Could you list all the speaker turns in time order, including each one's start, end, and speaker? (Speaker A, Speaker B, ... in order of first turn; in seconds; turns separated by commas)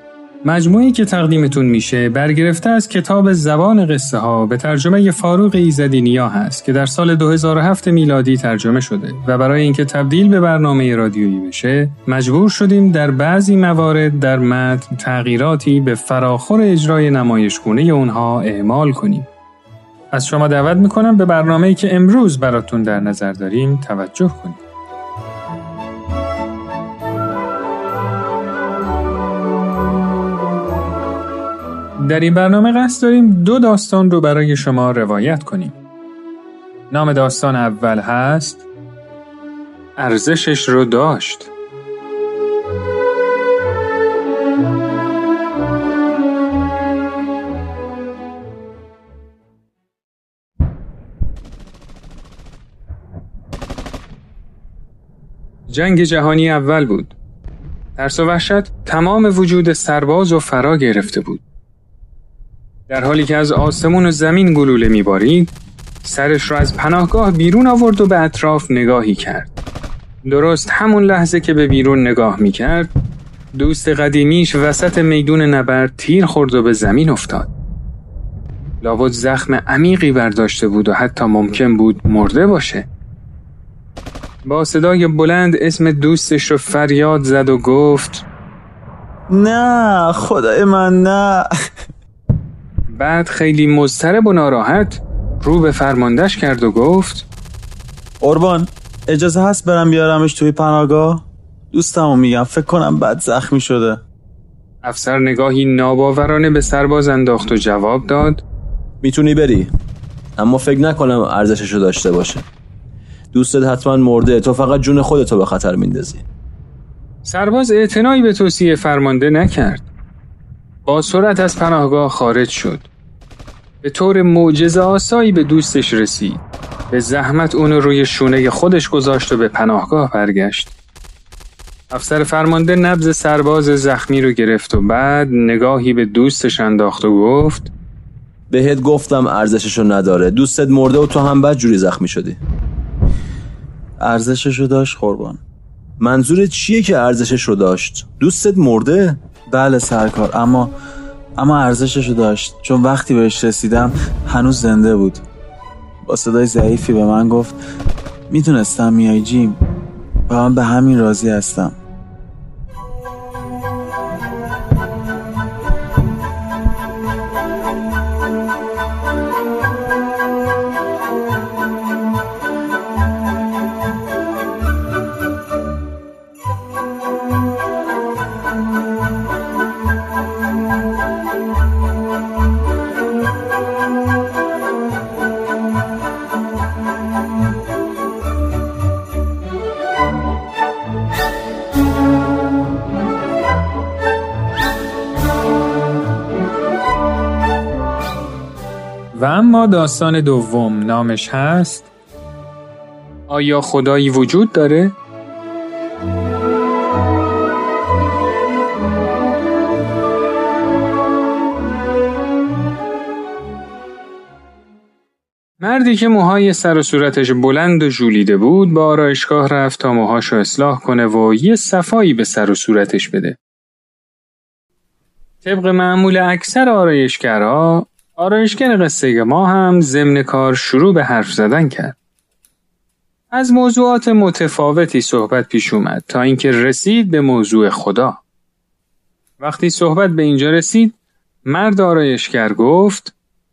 Speaker A: 0.4-19.3, Speaker A: 20.1-24.6, Speaker A: 32.0-35.8, Speaker A: 36.9-38.6, Speaker A: 40.0-41.5, Speaker A: 55.7-57.1, Speaker A: 58.0-61.4, Speaker A: 62.9-65.5, Speaker A: 66.0-69.5, Speaker A: 70.2-72.9, Speaker A: 73.5-77.5, Speaker A: 78.8-82.8, Speaker A: 84.4-88.2, Speaker B: 89.3-91.4, Speaker A: 92.9-97.2, Speaker B: 98.2-104.0, Speaker A: 104.8-108.4, Speaker C: 109.0-109.7, Speaker C: 110.4-112.5, Speaker C: 113.3-116.2, Speaker A: 117.2-119.9, Speaker A: 120.8-122.9, Speaker A: 123.8-130.7, Speaker A: 131.9-137.7, Speaker C: 138.5-142.4, Speaker B: 144.0-145.4, Speaker C: 146.0-149.2, Speaker B: 149.5-150.7, Speaker B: 151.4-155.2, Speaker B: 156.1-157.6, Speaker B: 158.3-159.6, Speaker B: 160.3-161.8, Speaker A: 199.1-201.9, Speaker A: 203.3-204.9, Speaker A: 215.6-223.4, Speaker A: 225.4-232.0, Speaker A: 233.3-238.2, Speaker A: 239.4-243.1